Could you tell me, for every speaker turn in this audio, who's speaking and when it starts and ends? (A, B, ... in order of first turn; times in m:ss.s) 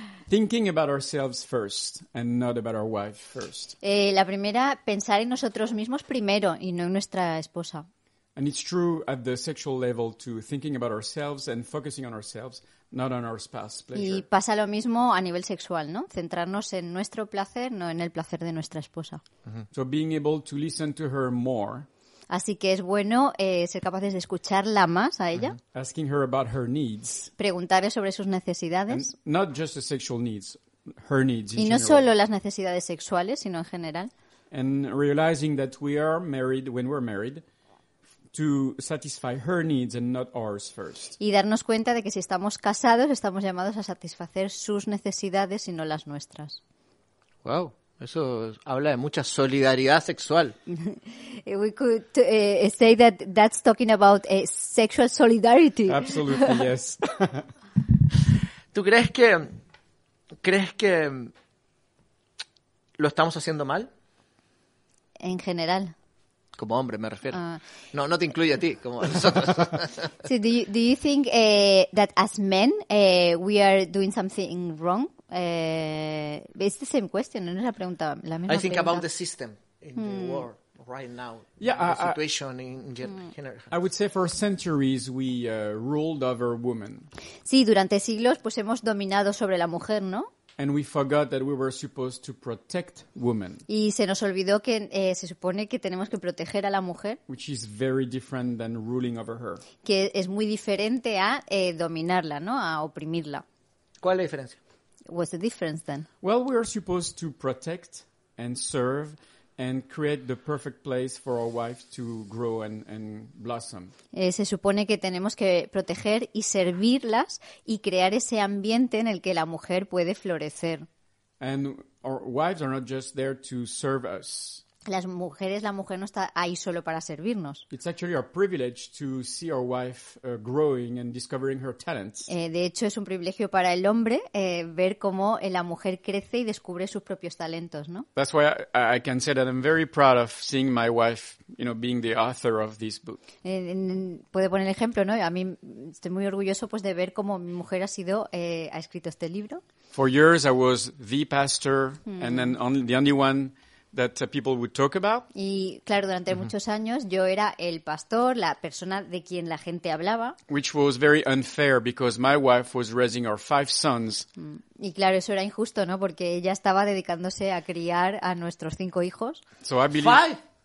0:00.3-0:03.8 A
0:03.8-0:07.9 B
0:08.4-0:14.2 A
0:13.9-0:19.2 B
0:19.7-0:21.9 A
0:22.3-0:25.6 B
0:25.7-0:27.3 A
0:27.4-0:29.1 B
0:28.9-0:32.1 A
0:31.6-0:34.1 B
0:34.5-0:37.4 A
0:38.3-0:41.2 A
0:41.2-0:46.6 B
0:47.4-0:50.6 C
0:50.7-0:56.7 B
0:55.9-0:57.5 A
0:58.7-0:59.5 C
1:00.4-1:01.3 C
1:03.0-1:03.9 C
1:05.2-1:05.9 B
1:06.6-1:07.4 C
1:07.3-1:07.6 B
1:07.9-1:10.1 C
1:10.2-1:19.0 B
1:18.5-1:23.7 C
1:20.0-1:20.5 B
1:21.6-1:22.2 A
1:23.7-1:27.1 A
1:27.4-1:30.3 B
1:30.6-1:33.6 A
1:33.7-1:37.2 B
1:37.3-1:39.6 A
1:39.8-1:43.4 B
1:44.0-1:44.6 C
1:45.1-1:46.1 B
1:46.2-1:53.9 A
1:54.1-2:00.9 B
2:01.4-2:04.6 A
2:04.9-2:07.6 B
2:07.7-2:12.3 A
2:12.3-2:18.1 B
2:18.2-2:23.2 A
2:23.4-2:29.6 B
2:29.9-2:35.3 A
2:32.1-2:32.5 B
2:35.3-2:40.4 B
2:40.5-2:44.3 A
2:44.4-2:49.4 B
2:49.6-2:50.2 A
2:50.0-2:50.4 C